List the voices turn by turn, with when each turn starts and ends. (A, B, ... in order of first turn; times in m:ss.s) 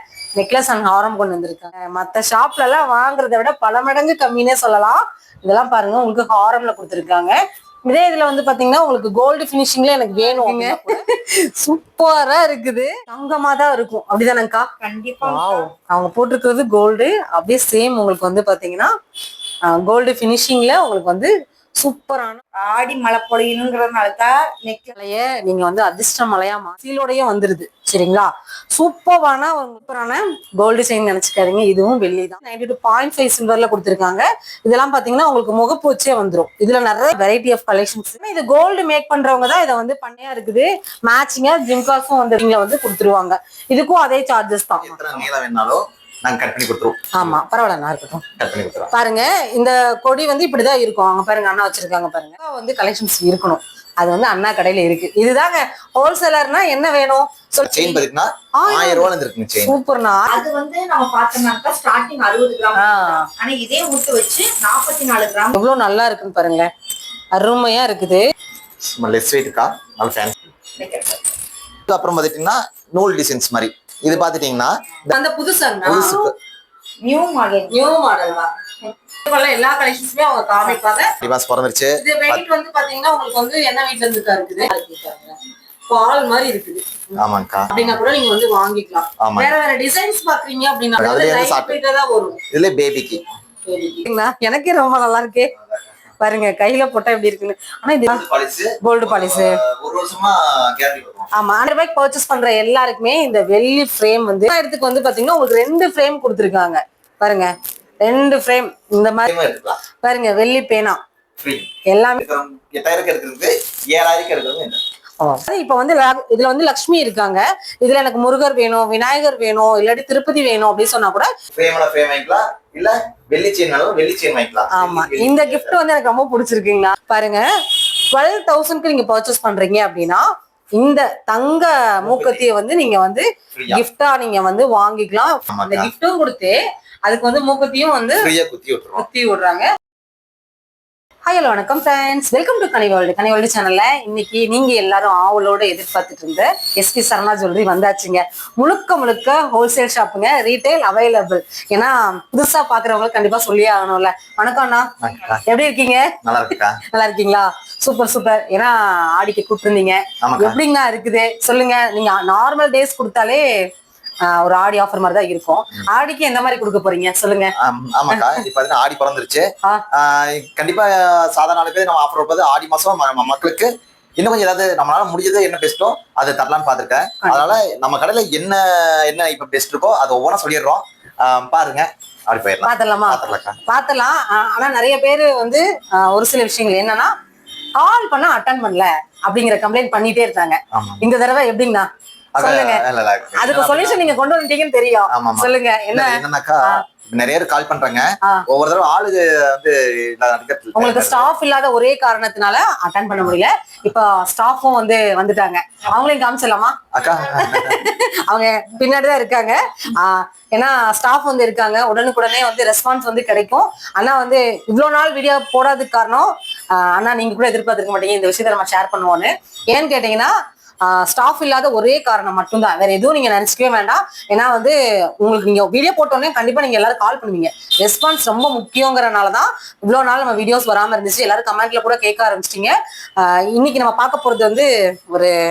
0:00.4-0:14.7 A
0:10.1-0:11.0 B
0:14.8-0:15.7 B
0:15.2-0:18.9 A
0:19.6-0:22.4 A
0:22.6-0:24.9 B
0:25.0-0:45.2 A
0:44.8-0:47.4 C
0:47.2-0:48.2 A
0:48.4-0:48.9 C
0:48.9-0:58.0 A
0:57.6-0:59.8 C
0:58.6-0:59.1 A
0:59.6-1:00.4 A
1:00.3-1:05.6 B
1:02.8-1:03.3 A
1:05.5-1:06.7 A
1:07.3-1:08.3 A
1:08.8-1:10.4 C
1:10.8-1:11.3 B
1:11.9-1:14.8 C
1:15.1-1:16.3 A
1:15.8-1:16.3 C
1:17.0-1:18.0 B
1:17.7-1:18.5 A
1:19.2-1:21.1 A
1:21.2-1:22.4 C
1:22.0-1:25.4 A
1:25.9-1:32.4 A
1:27.2-1:28.0 C
1:29.2-1:29.5 C
1:31.0-1:31.8 C
1:32.5-1:33.2 C
1:33.7-1:35.5 A
1:35.6-1:35.9 C
1:36.2-1:38.2 A
1:38.1-1:41.3 C
1:38.8-1:39.6 A
1:41.3-1:47.5 A
1:48.0-1:49.3 A
1:49.3-1:49.8 C
1:50.0-1:51.0 A
1:51.4-1:51.7 C
1:51.9-1:52.2 A
1:52.2-1:54.8 C
1:55.2-2:01.3 A
2:01.5-2:05.8 C
2:04.7-2:07.4 A
2:08.1-2:18.3 A
2:12.0-2:12.4 C
2:13.5-2:13.8 C
2:15.5-2:15.9 C
2:18.2-2:19.0 C
2:19.0-2:19.7 A
2:21.3-2:34.9 A
2:35.0-2:35.4 C
2:35.5-2:36.2 A
2:36.2-2:36.8 C
2:36.9-2:43.4 A
2:40.2-2:40.6 C
2:44.2-2:47.5 A
2:47.6-3:03.6 C
2:48.1-2:48.4 A
2:57.2-2:57.6 A
3:02.6-3:07.1 A
3:07.8-3:11.9 A
3:10.7-3:11.1 C
3:12.4-3:14.1 C
3:12.4-3:12.8 A
3:13.4-3:16.8 A
3:15.1-3:21.3 C
3:20.8-3:55.4 A
3:26.9-3:27.8 C